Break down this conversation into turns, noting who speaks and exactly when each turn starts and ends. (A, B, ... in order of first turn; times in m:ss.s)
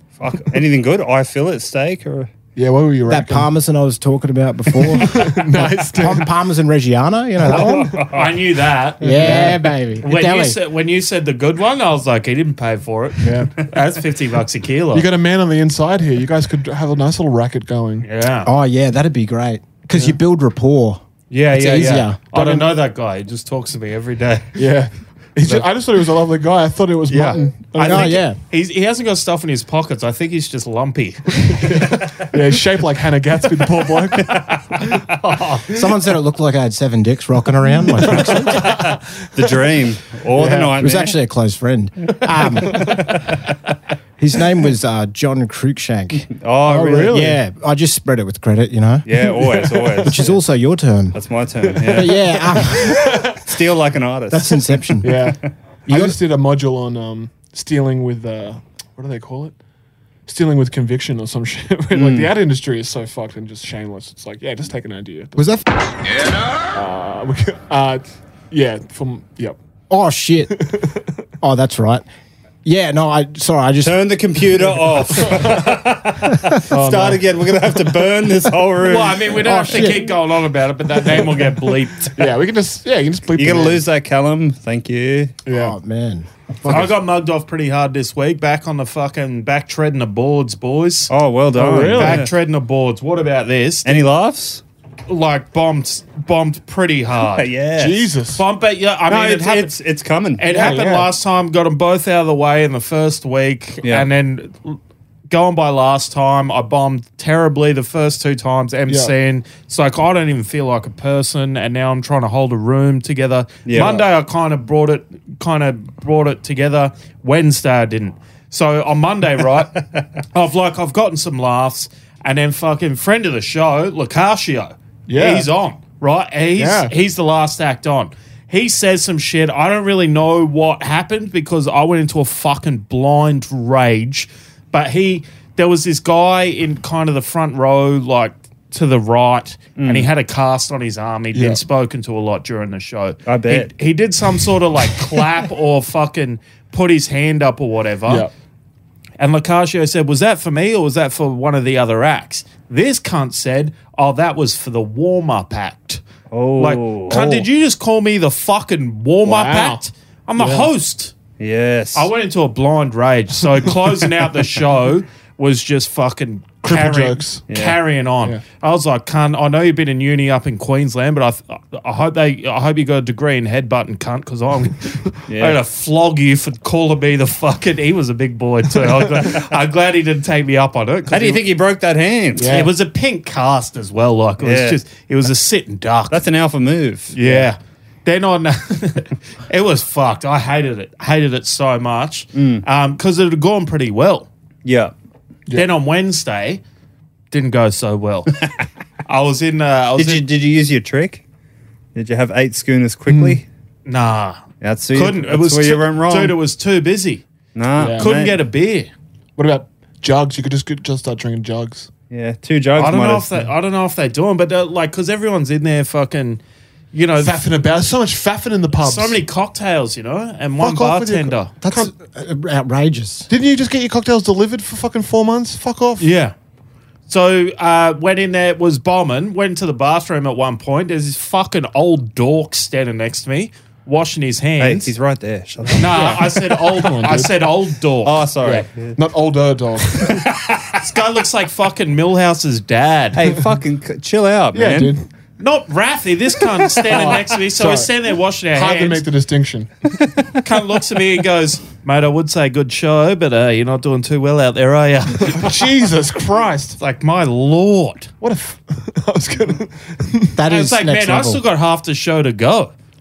0:00.2-0:02.3 A
0:02.6-0:03.5 B
0:03.1-0:08.0 C
0:04.9-0:06.3 B
0:07.5-0:08.3 A
0:08.1-0:15.1 D
0:09.0-0:10.6 C
0:09.1-0:09.6 B
0:13.2-0:13.6 B
0:14.9-0:18.1 B
0:18.0-0:18.5 D
0:18.4-0:22.2 C
0:21.3-0:24.5 D
0:22.3-0:22.7 B
0:24.6-0:28.2 B
0:27.1-0:31.6 D
0:27.8-0:28.4 C
0:31.4-0:34.8 B
0:35.1-0:35.8 D
0:35.7-0:38.8 C
0:38.0-0:39.0 B
0:39.3-0:41.2 A
0:40.3-0:40.8 B
0:40.8-0:43.1 C
0:42.7-0:43.0 B
0:42.7-0:43.1 A
0:44.2-0:46.3 C
0:46.4-0:47.3 A
0:46.6-0:47.4 B
0:47.1-0:49.1 C
0:49.1-0:50.4 A
0:49.2-0:50.2 B
0:50.0-0:51.2 C
0:51.1-0:54.6 A
0:51.7-0:53.4 B
0:51.9-0:53.3 C
0:54.3-0:55.4 C
0:55.0-0:59.6 B
0:55.9-0:56.2 C
1:00.3-1:05.5 B
1:01.9-1:02.3 A
1:05.4-1:05.7 C
1:06.7-1:09.6 B
1:09.9-1:10.6 C
1:10.6-1:11.0 B
1:11.4-1:12.0 C
1:12.6-1:14.0 C
1:13.8-1:19.9 A
1:15.1-1:15.6 B
1:16.7-1:17.2 B
1:18.8-1:22.2 D
1:19.4-1:20.2 C
1:22.2-1:23.8 B
1:23.4-1:25.3 A
1:25.5-1:25.8 B
1:25.5-1:26.9 C
1:26.6-1:31.1 D
1:31.1-1:32.3 A
1:31.6-1:32.3 B
1:31.8-1:34.0 D
1:33.8-1:34.6 A
1:35.1-1:37.5 D
1:37.4-1:38.1 A
1:37.8-1:38.4 B
1:38.4-1:39.7 D
1:39.1-1:40.8 A
1:40.4-1:44.8 D
1:40.5-1:41.1 B
1:45.3-2:28.3 D
1:53.7-1:54.1 A
2:05.1-2:05.5 B
2:06.6-2:06.9 B
2:19.8-2:20.1 A
2:21.3-2:21.6 B
2:23.3-2:23.7 A
2:29.2-2:36.0 D
2:36.3-2:37.5 A
2:36.6-2:41.1 D
2:39.2-2:39.8 B
2:40.4-2:40.7 B
2:41.4-2:42.1 A
2:42.0-3:01.4 D
2:46.6-2:47.4 B
2:47.5-2:47.8 A
2:55.3-2:55.6 A
3:01.1-3:02.6 A
3:02.4-3:02.7 B
3:02.4-3:06.2 D
3:04.4-3:04.8 A
3:06.1-3:07.2 A
3:07.1-3:14.3 D
3:12.3-3:12.6 A
3:14.6-3:14.9 A
3:15.5-3:15.7 B
3:15.5-3:16.6 D
3:17.3-3:18.3 D
3:19.1-3:20.3 D
3:20.0-3:21.2 A
3:22.0-3:23.4 A
3:23.1-3:23.4 B
3:23.9-3:24.4 D
3:24.6-3:26.4 A
3:24.9-3:27.2 D
3:27.6-3:28.4 A
3:27.8-3:28.1 B
3:28.0-3:28.9 D
3:29.4-3:31.9 B
3:32.1-3:33.4 A
3:32.8-3:36.4 D
3:36.9-3:37.4 D
3:37.2-3:39.2 B
3:38.8-3:41.5 D
3:40.6-3:41.9 B
3:41.6-3:43.3 C
3:43.3-3:46.1 B
3:46.0-3:46.4 D
3:47.1-3:54.9 D
3:54.6-3:56.3 A
3:55.8-3:58.2 D
3:55.8-3:57.3 B
3:58.0-3:58.9 A
3:58.4-4:00.3 B
4:00.0-4:00.3 A
4:00.7-4:03.2 D
4:03.2-4:05.0 A
4:04.5-4:05.0 B
4:05.4-4:09.0 D
4:06.7-4:07.2 A
4:06.9-4:07.9 B
4:08.5-4:09.9 B
4:10.4-4:15.5 D
4:15.2-4:16.8 B
4:16.8-4:18.1 D
4:18.2-4:20.4 B
4:20.4-4:21.4 C
4:20.5-4:22.7 D